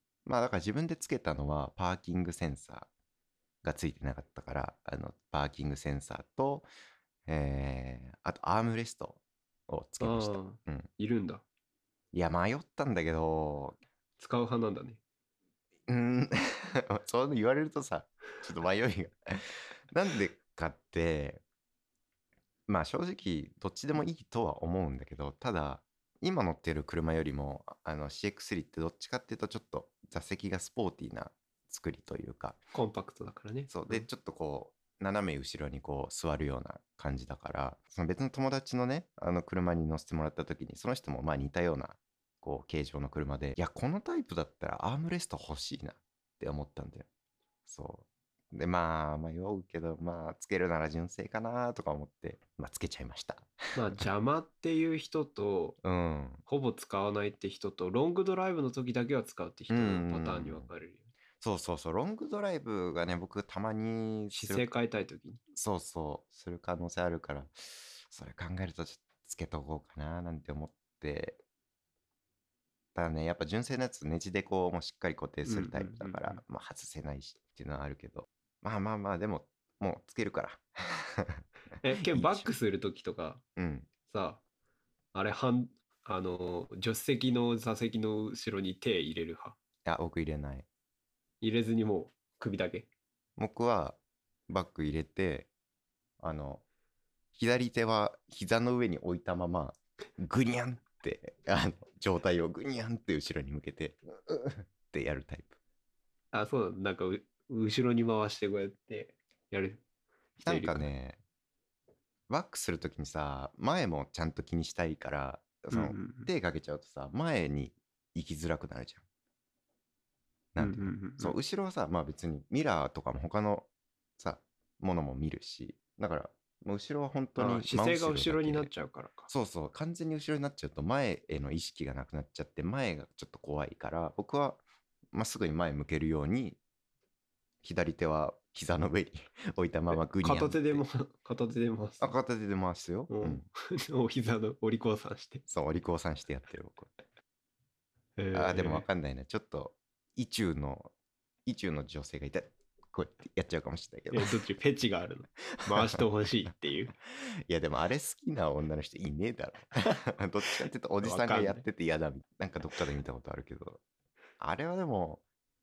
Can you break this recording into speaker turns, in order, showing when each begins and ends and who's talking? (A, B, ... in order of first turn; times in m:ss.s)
0:00.2-0:02.9 A
0:03.6-0:06.7 A
0:07.3-0:10.9 A
0:10.0-0:11.4 B
0:12.1-0:13.8 A
0:14.2-0:15.0 B
0:15.9-0:21.4 A
0:22.7-0:32.6 A
0:32.7-0:34.1 B
0:33.7-0:47.1 A
0:47.7-0:54.0 A
0:53.7-0:55.8 B
0:55.8-0:56.4 A
0:56.4-1:01.1 B
0:59.7-1:00.7 A
1:01.4-1:04.7 A
1:04.3-1:05.4 B
1:05.5-1:11.4 A
1:12.9-1:22.5 A
1:15.4-1:16.4 B
1:21.8-1:23.4 B
1:23.6-1:23.9 A
1:24.0-1:24.4 B
1:25.1-1:29.6 B
1:29.8-1:30.7 A
1:31.4-1:32.9 B
1:33.4-1:35.5 A
1:36.2-1:36.6 A
1:37.3-1:45.5 A
1:46.3-1:49.8 B
1:50.4-1:50.9 B
1:50.4-1:51.2 A
1:52.3-1:59.0 A
1:55.7-1:56.3 B
2:00.5-2:08.7 A
2:00.6-2:01.4 B
2:07.4-2:09.3 B
2:09.3-2:16.6 A
2:17.6-2:20.8 A
2:19.9-2:22.1 B
2:22.0-2:23.4 A
2:23.1-2:25.4 B
2:25.5-2:26.9 A
2:28.2-2:28.9 B
2:28.3-2:30.9 A
2:31.4-2:34.4 A
2:34.1-2:36.9 B
2:37.1-2:43.8 A
2:41.0-2:41.6 B
2:44.4-2:45.2 A